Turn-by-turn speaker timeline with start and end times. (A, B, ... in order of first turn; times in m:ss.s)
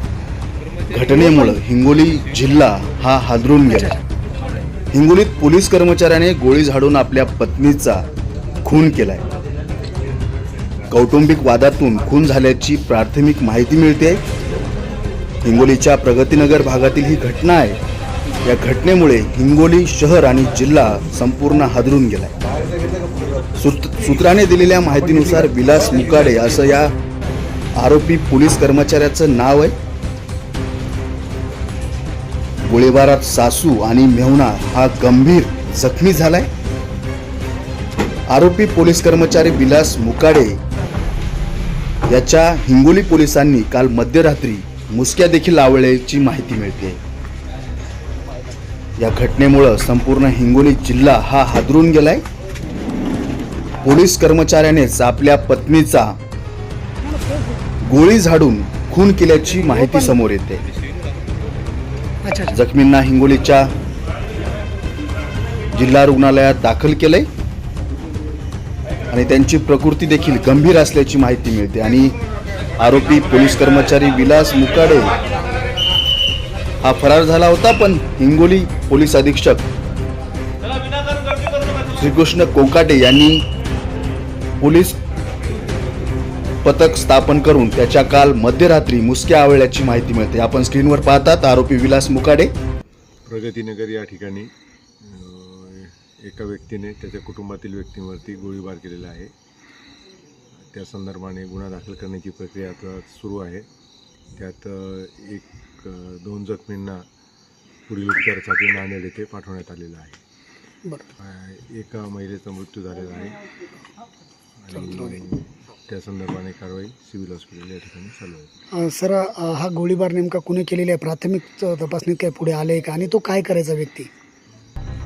0:00.9-0:04.0 A
0:04.9-0:08.0 A
0:08.6-0:09.2 A
0:10.9-0:14.2 A
0:15.4-0:17.8 A
0:18.4-0:22.3 A
0:23.6-0:26.9 A
0:27.8-0:29.7 A
0:32.7-0:36.5 A
0:38.3-0:40.6 A
0:42.1-0:47.0 A
0:49.0-0:52.2 A
0:53.8-0:56.2 A
0:57.1-0:57.4 B
0:57.8-1:00.6 A
0:59.8-1:00.1 B
1:02.2-1:02.5 B
1:02.5-1:03.7 A
1:05.7-1:07.3 A
1:09.1-1:12.2 A
1:12.8-1:15.1 A
1:16.8-1:19.7 A
1:21.9-1:23.4 A
1:24.6-1:25.0 A
1:26.6-1:32.5 A
1:33.2-1:39.3 C
1:40.6-1:43.7 C
1:44.4-1:47.0 C
1:47.9-1:50.2 C
1:51.2-1:53.4 C
1:54.6-1:58.5 C
1:58.7-2:04.1 B